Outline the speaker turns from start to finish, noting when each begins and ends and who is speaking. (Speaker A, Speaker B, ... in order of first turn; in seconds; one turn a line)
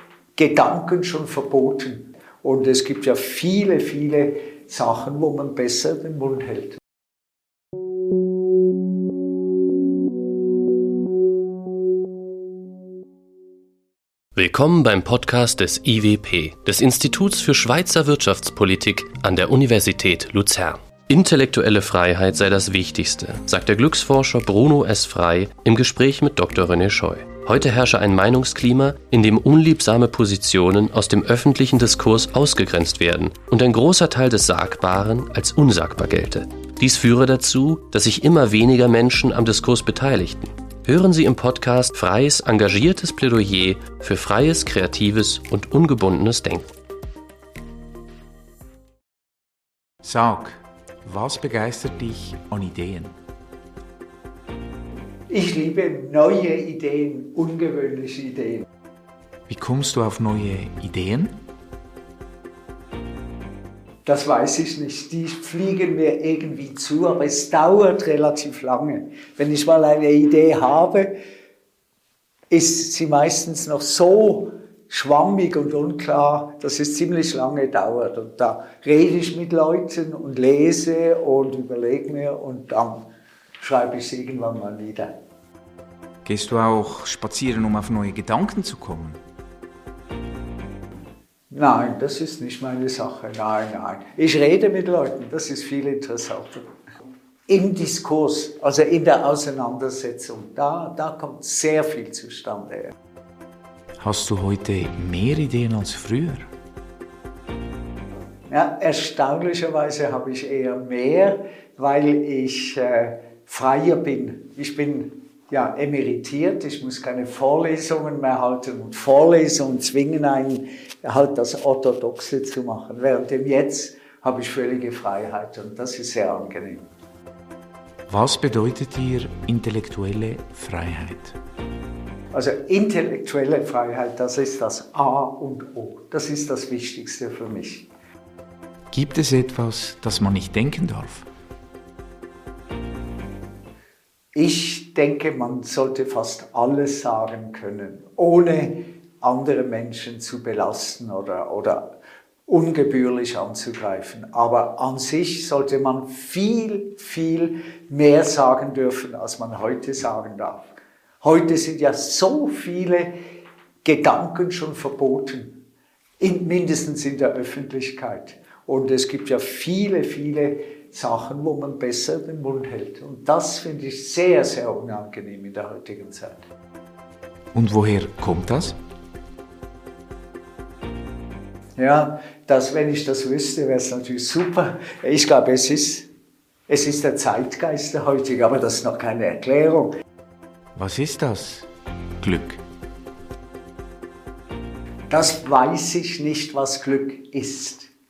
Speaker A: 0.3-6.8
Speaker B: 14.3-46.7
Speaker C: 50.0-53.1
Speaker A: 55.3-58.6
Speaker C: 59.5-61.4
Speaker A: 64.0-71.1
Speaker A: 72.5-83.0
Speaker A: 83.6-85.1
Speaker C: 86.2-89.2
Speaker A: 91.5-96.7
Speaker A: 97.5-102.9
Speaker C: 104.0-106.5
Speaker A: 108.5-126.8
Speaker C: 128.1-131.3
Speaker A: 132.3-137.9
Speaker C: 138.9-141.3
Speaker A: 144.3-151.9
Speaker A: 152.5-160.6
Speaker A: 161.2-163.1
Speaker A: 163.8-165.6
Speaker A: 166.2-176.4
Speaker C: 177.5-178.8
Speaker A: 181.8-186.1
Speaker A: 186.7-189.9
Speaker C: 190.7-191.7
Speaker C: 192.2-192.6
Speaker A: 195.1-197.9